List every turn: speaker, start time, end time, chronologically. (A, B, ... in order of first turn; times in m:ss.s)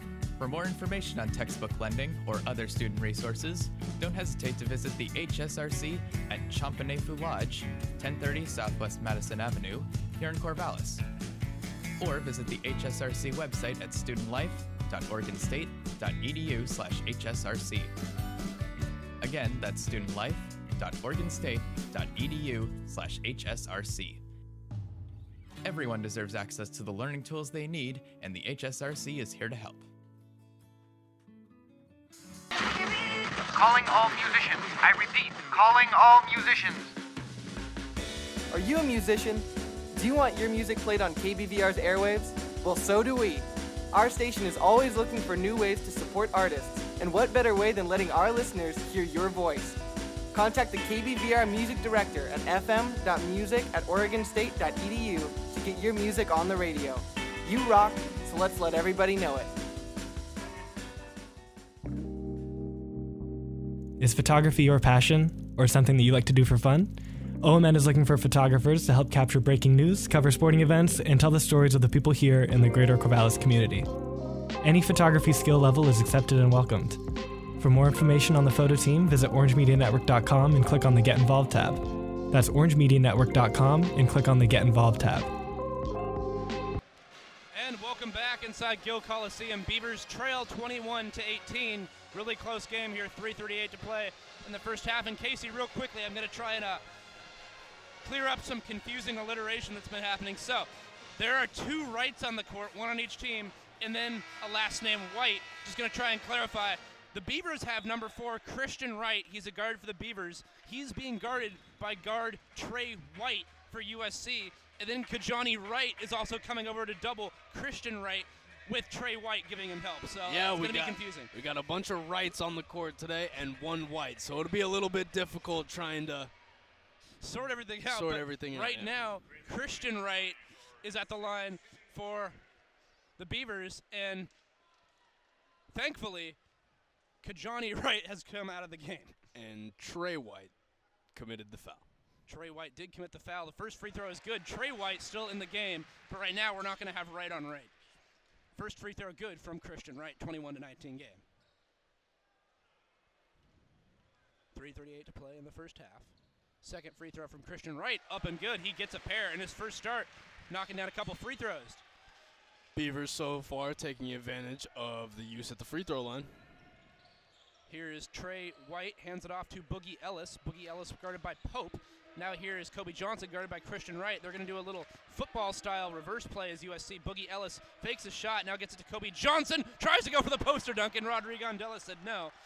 0:00.4-0:11.0 A
0:12.0-0:17.9 A
0:19.2-0:24.2 A
0:25.6-0:29.9 A
0:33.5-0:36.9 B
0:38.5-0:49.8 C
0:50.3-0:59.5 C
1:04.0-1:13.9 D
1:14.6-1:17.0 D
1:17.6-1:25.3 D
1:27.5-1:36.8 E
1:38.0-2:01.3 E
2:00.3-2:06.3 F
2:07.2-2:12.4 E
2:07.9-2:09.0 F
2:13.2-2:14.3 E
2:15.7-2:16.4 E
2:17.2-2:19.2 E
2:19.4-2:20.5 F
2:21.1-2:21.8 F
2:22.3-2:27.7 E
2:28.6-2:31.2 E
2:34.5-2:41.8 E
2:42.8-2:46.4 F
2:47.7-3:02.3 E